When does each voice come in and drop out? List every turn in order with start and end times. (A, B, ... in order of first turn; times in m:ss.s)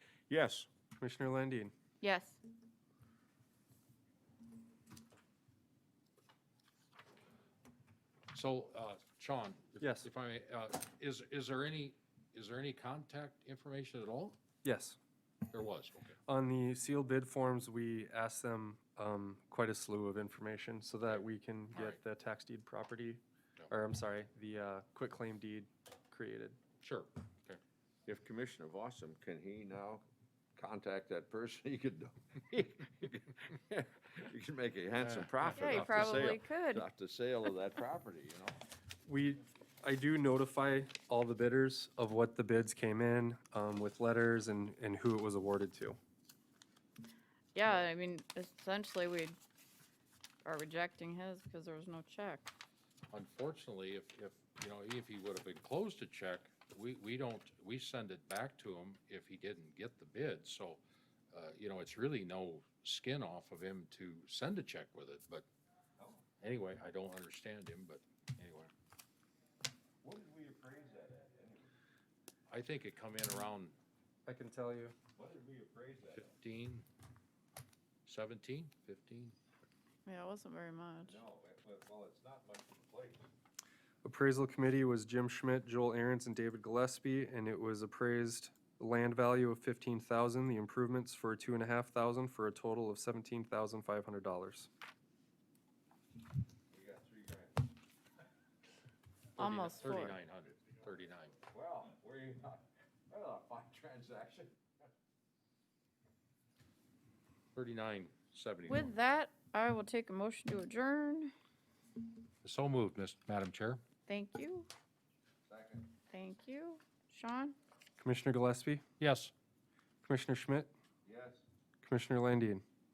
0:00.3-0:00.7 A
0:01.0-0:01.7 B
0:02.0-0:02.4 C
0:08.3-0:14.4 D
0:09.8-0:10.1 B
0:14.6-0:15.0 B
0:15.5-0:16.2 D
0:16.3-0:26.6 B
0:21.0-0:22.0 D
0:26.8-0:27.6 D
0:28.1-0:30.0 A
0:30.6-0:38.6 A
0:35.0-0:36.3 D
0:35.5-0:36.9 C
0:39.1-0:46.0 B
0:47.5-0:49.4 C
0:50.4-0:52.5 C
0:53.1-1:05.5 D
1:06.0-1:06.2 A
1:06.4-1:08.7 D
1:10.0-1:11.7 A
1:12.5-1:13.8 D
1:14.3-1:15.0 B
1:15.2-1:16.3 A
1:16.2-1:16.9 D
1:18.1-1:19.4 D
1:20.1-1:21.2 C
1:21.0-1:23.3 A
1:24.0-1:34.7 B
1:36.7-1:37.7 A
1:39.4-1:41.4 D
1:39.4-1:40.2 C
1:41.5-1:44.9 A
1:47.6-1:49.0 D
1:48.7-1:51.3 C
1:52.4-1:53.8 D
1:54.1-1:54.7 C
1:55.5-1:55.9 A
1:56.1-1:57.6 C
1:58.0-1:58.8 B
1:59.0-1:59.3 D
2:00.0-2:00.7 B
2:01.0-2:01.4 A
2:01.8-2:02.6 B